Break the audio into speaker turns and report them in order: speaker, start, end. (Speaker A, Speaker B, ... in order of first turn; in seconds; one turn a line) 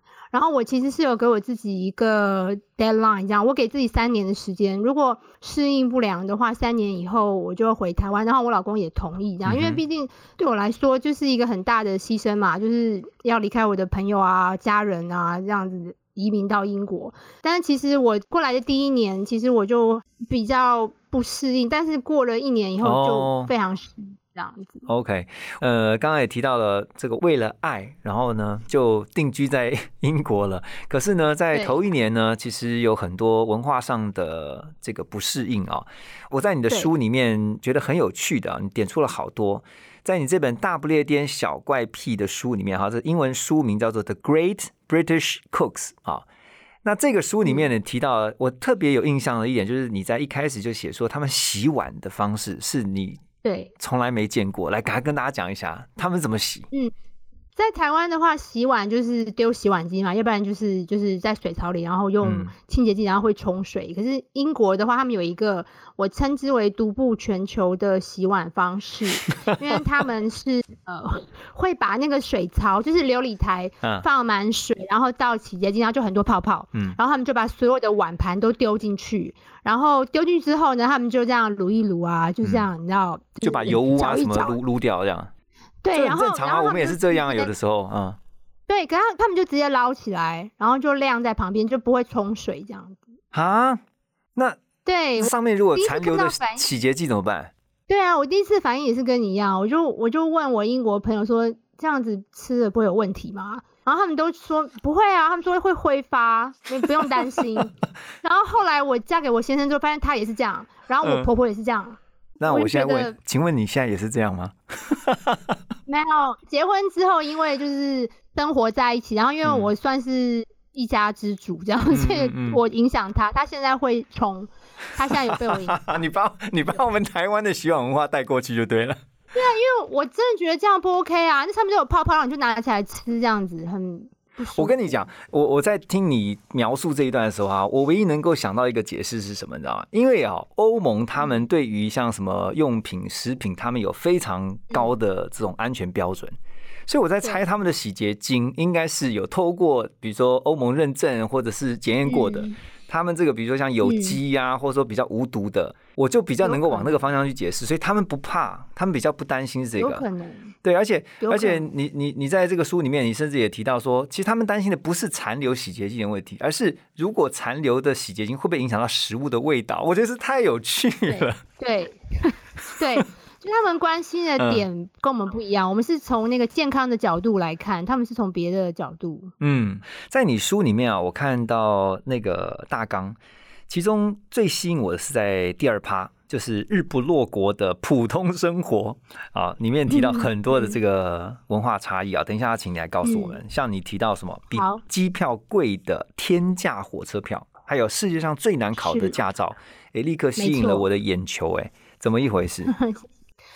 Speaker A: 0.3-24.9
Speaker B: 9.4-9.8
Speaker B: 22.8-23.5
Speaker B: 24.9-46.2
Speaker A: 31.5-31.8
Speaker B: 46.9-53.2
Speaker A: 53.4-53.7
Speaker B: 53.8-56.7
Speaker A: 57.6-84.6
Speaker B: 62.2-62.5
Speaker B: 83.4-85.3
Speaker A: 85.8-87.5
Speaker B: 85.9-88.2
Speaker A: 88.7-93.0
Speaker B: 93.3-93.8
Speaker B: 94.4-94.6
Speaker A: 94.8-96.6
Speaker B: 95.2-97.5
Speaker A: 97.9-113.2
Speaker B: 107.0-107.4
Speaker B: 111.0-111.3
Speaker B: 112.4-115.5
Speaker A: 115.9-126.0
Speaker B: 119.4-119.7
Speaker B: 121.9-122.6
Speaker B: 125.0-129.0
Speaker A: 129.3-135.1
Speaker B: 134.6-146.4
Speaker B: 146.9-160.0
Speaker A: 152.1-152.6
Speaker A: 153.8-154.2
Speaker A: 156.4-157.0
Speaker A: 159.8-160.5
Speaker B: 160.6-171.4
Speaker A: 161.2-161.7
Speaker A: 171.1-179.3
Speaker B: 174.4-174.7
Speaker B: 179.4-183.2
Speaker B: 183.7-202.7
Speaker A: 189.9-190.8
Speaker A: 193.0-193.4
Speaker A: 194.6-194.8
Speaker A: 198.8-199.2
Speaker A: 200.4-200.9
Speaker A: 202.7-203.0